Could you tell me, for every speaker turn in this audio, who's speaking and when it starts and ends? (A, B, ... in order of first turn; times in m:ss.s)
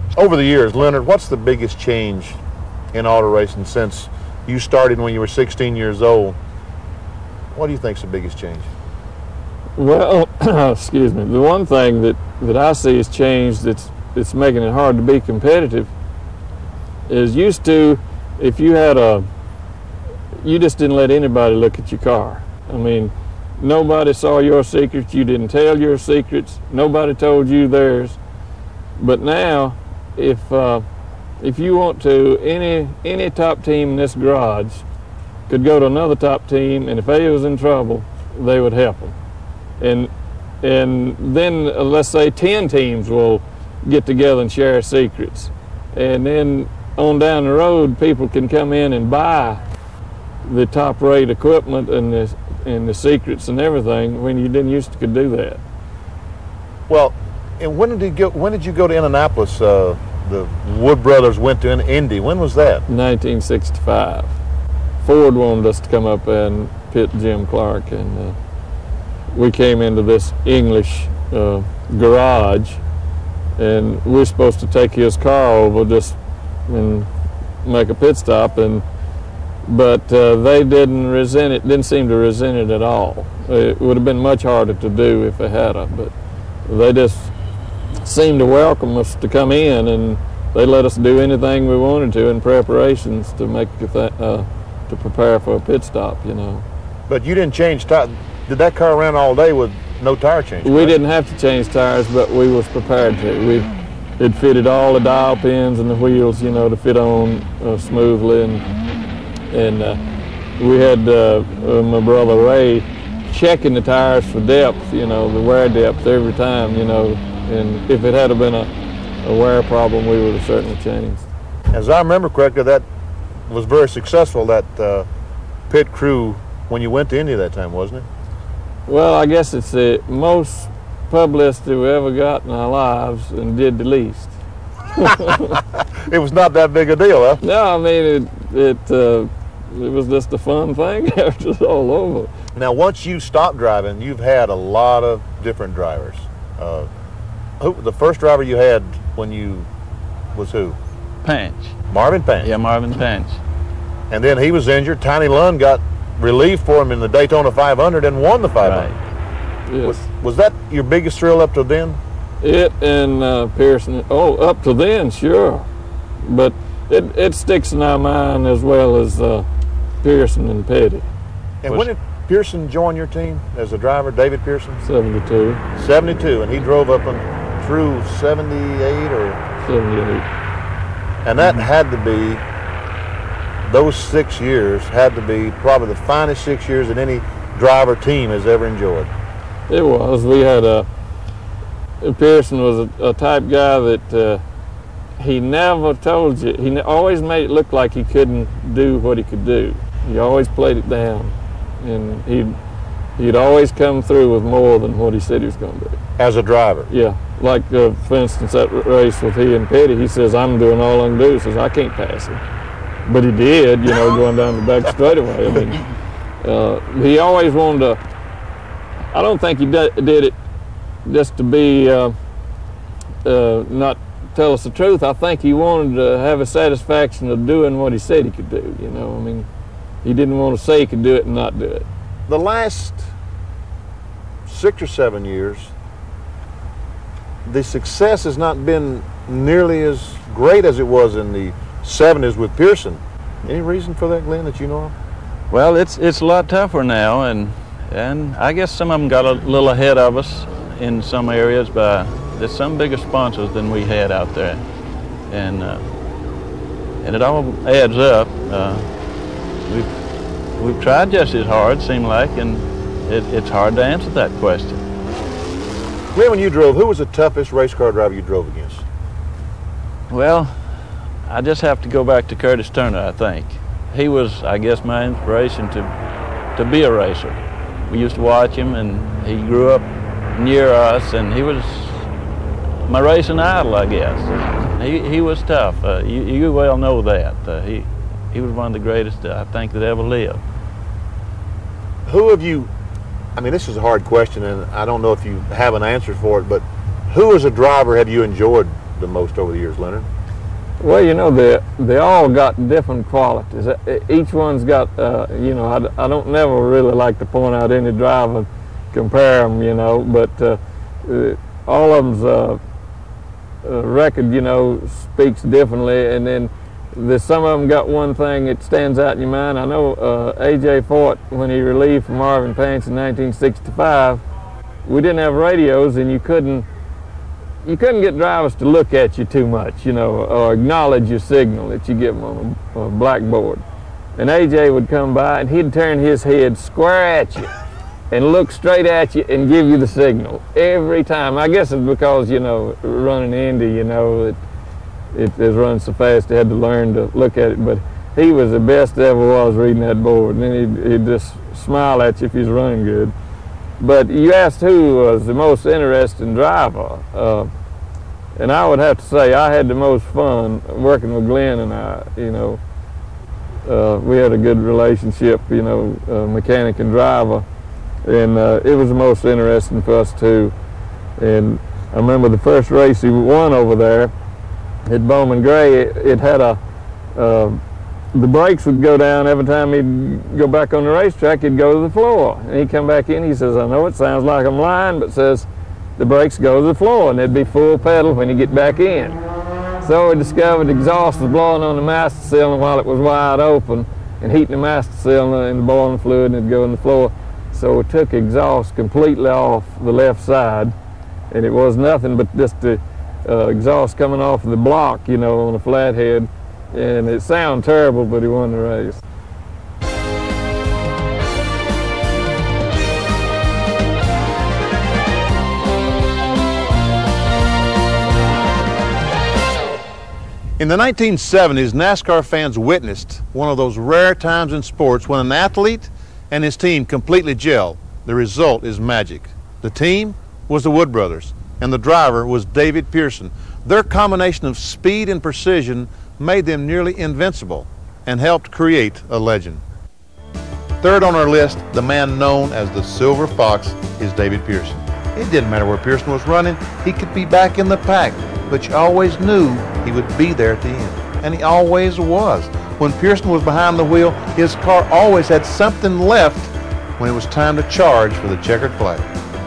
0:00.2-0:02.4 A
0:02.9-0:06.4 A
0:07.5-0:08.7 A
0:09.8-0:15.9 B
0:17.1-0:19.2 B
0:20.4-0:28.2 B
0:29.0-0:30.8 B
0:31.4-0:34.8 B
0:35.5-0:39.1 B
0:39.8-0:40.1 B
0:40.6-0:49.6 B
0:50.4-0:55.6 B
0:56.9-1:02.8 A
1:02.9-1:04.3 B
1:05.0-1:08.4 B
1:09.3-1:12.8 B
1:13.6-1:17.1 B
1:17.6-1:18.8 B
1:19.6-1:26.1 B
1:26.6-1:27.3 B
1:28.0-1:36.6 B
1:37.1-1:41.0 A
1:40.6-1:48.6 B
1:49.5-1:50.0 B
1:50.6-1:58.7 B
1:59.2-2:01.3 B
2:01.7-2:02.8 A
2:03.5-2:05.1 A
2:05.7-2:08.0 A
2:08.8-2:14.3 B
2:15.0-2:15.4 B
2:16.1-2:17.4 A
2:17.4-2:22.3 B
2:22.6-2:26.9 A
2:27.6-2:29.7 A
2:30.3-2:30.8 A
2:31.2-2:31.7 C
2:31.9-2:32.5 A
2:32.4-2:33.4 C
2:34.1-2:38.9 A
2:38.6-2:39.0 C
2:39.7-2:40.0 B
2:39.8-2:42.0 A
2:42.4-2:45.7 B
2:46.2-2:49.4 B
2:50.0-2:51.0 B
2:51.6-2:54.8 A
2:54.8-2:55.6 B
2:55.8-2:59.4 A
2:59.6-3:00.2 B
3:01.2-3:02.4 A
3:03.6-3:09.1 A
3:09.7-3:10.9 B
3:12.0-3:14.4 B
3:15.2-3:22.5 B
3:23.2-3:26.0 B
3:26.2-3:26.9 A
3:26.9-3:32.4 B
3:33.0-3:35.8 B
3:36.4-3:38.0 B
3:39.1-3:40.3 B
3:41.0-3:42.1 B
3:43.2-3:49.5 B
3:50.0-3:51.8 B
3:52.3-3:53.1 A
3:54.4-3:55.7 A
3:57.4-4:04.9 A
4:05.5-4:14.6 C
4:15.3-4:15.9 C
4:17.0-4:18.9 C
4:20.6-4:24.8 C
4:26.1-4:28.8 A
4:30.1-4:30.7 C
4:31.3-4:35.9 C
4:36.5-4:42.1 C
4:42.8-4:50.4 C
4:52.1-4:52.7 A
4:53.4-5:00.1 A
5:00.8-5:12.6 B
5:13.6-5:24.2 B
5:24.8-5:26.6 B
5:27.6-5:33.6 B
5:34.2-5:37.5 B
5:38.1-5:44.4 B
5:45.1-5:53.1 B
5:53.8-5:57.5 B
5:58.4-6:02.6 B
6:03.6-6:07.4 B
6:08.0-6:10.5 B
6:11.2-6:14.1 B
6:14.9-6:16.6 B
6:17.2-6:17.6 B
6:18.1-6:29.2 B
6:29.8-6:40.7 B
6:41.3-6:49.0 B
7:00.6-7:19.6 A
7:20.8-7:39.0 A